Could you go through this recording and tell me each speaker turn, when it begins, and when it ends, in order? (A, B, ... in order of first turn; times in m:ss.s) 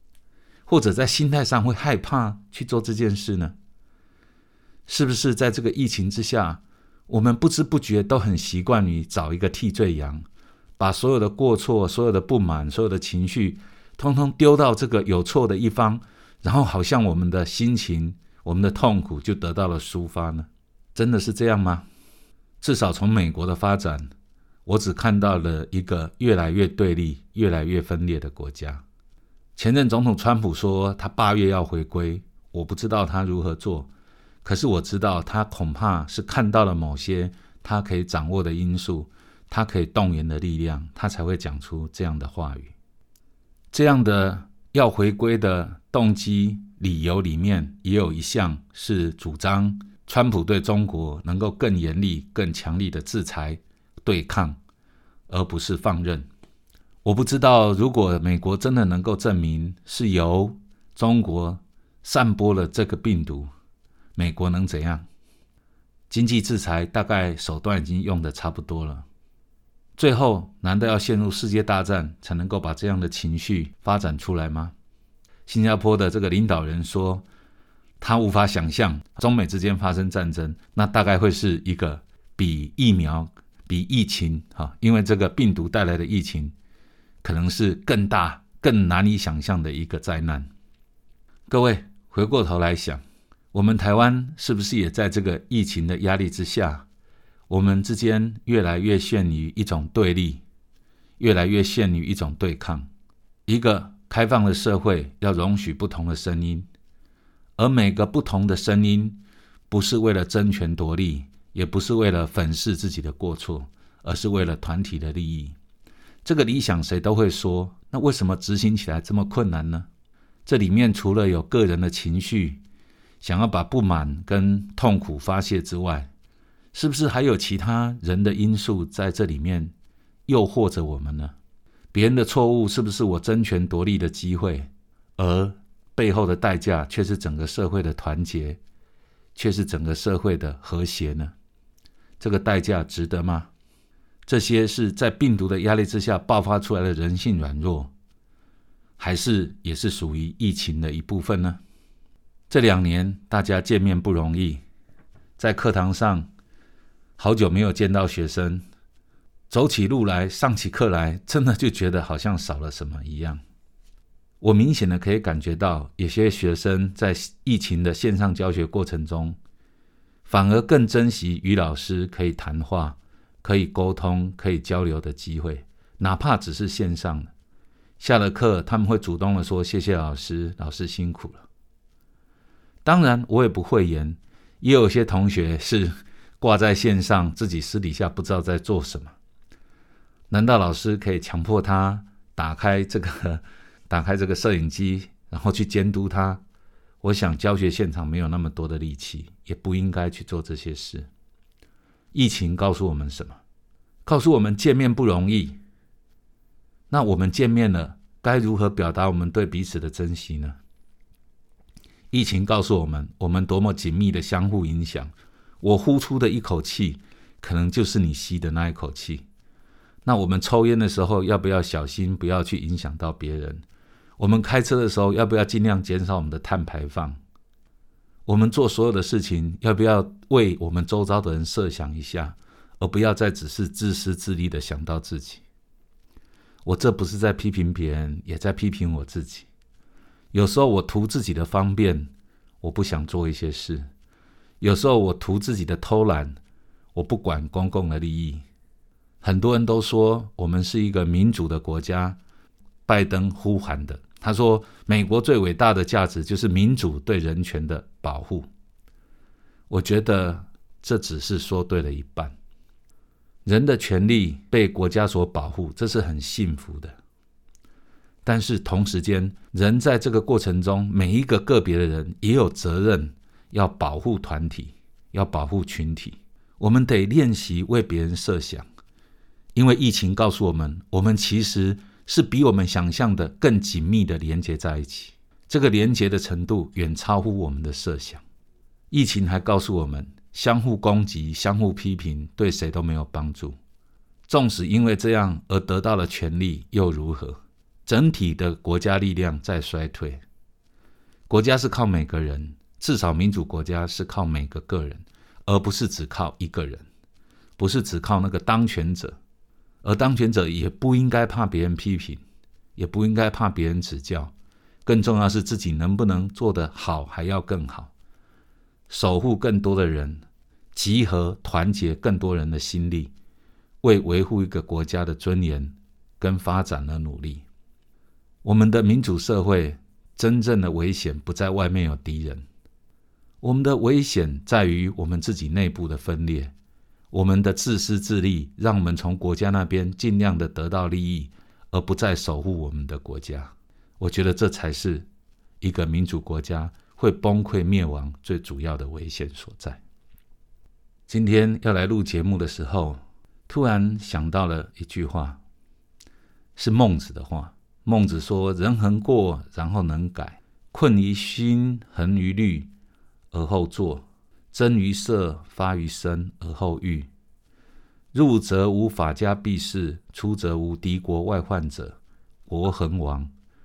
0:00.7-0:03.6 A
0:04.9-0:10.2 A
0:10.8-0:21.9 A
0:22.6-0:24.1 A
0:24.7-0:28.8 A
0:29.6-0:33.9 A
0:34.4-0:42.7 A
0:43.7-0:54.6 A
0:55.3-0:56.3 A
0:57.0-1:03.5 A
1:04.2-1:05.0 A
1:06.1-1:09.1 A
1:10.0-1:14.7 A
1:15.5-1:17.3 A
1:18.0-1:26.5 A
1:27.2-1:30.5 A
1:31.5-1:33.0 A
1:33.5-1:36.9 A
1:37.5-1:40.4 A
1:41.2-1:42.9 A
1:43.5-1:46.7 A
1:47.6-1:55.6 A
1:56.2-1:59.9 A
2:00.5-2:02.6 A
2:03.2-2:06.1 A
2:06.7-2:09.7 A
2:10.3-2:11.4 A
2:11.9-2:18.6 A
2:19.4-2:21.3 A
2:22.2-2:23.5 A
2:24.3-2:27.9 A
2:29.0-2:31.6 A
2:32.5-2:34.6 A
2:35.4-2:36.3 A
2:37.2-2:38.6 A
2:39.5-2:43.4 A
2:44.4-2:49.4 A
2:50.2-2:57.3 A
2:58.0-3:01.4 A
3:02.8-3:09.1 A
3:10.3-3:16.4 A
3:17.0-3:21.1 A
3:22.1-3:23.4 A
3:24.1-3:25.6 A
3:26.9-3:30.6 A
3:32.1-3:39.2 A
3:40.0-3:43.6 A
3:44.2-3:47.2 A
3:48.3-3:55.4 A
3:56.6-3:59.5 A
4:00.3-4:03.8 A
4:04.6-4:06.4 A
4:06.9-4:08.4 A
4:09.2-4:12.2 A
4:12.9-4:18.5 A
4:19.7-4:22.4 A
4:23.5-4:27.0 A
4:28.2-4:38.7 A
4:39.6-4:48.2 A
4:48.9-4:53.6 A
4:54.3-5:00.2 A
5:01.3-5:06.9 A
5:07.6-5:09.2 A
5:09.8-5:12.2 A
5:12.8-5:14.3 A
5:14.9-5:17.9 A
5:18.9-5:23.1 A
5:23.8-5:27.4 A
5:28.4-5:32.5 A
5:33.4-5:36.5 A
5:37.1-5:45.1 A
5:45.6-5:49.8 A
5:51.1-5:55.4 A
5:56.6-6:02.7 A
6:03.3-6:07.1 A
6:08.1-6:13.3 A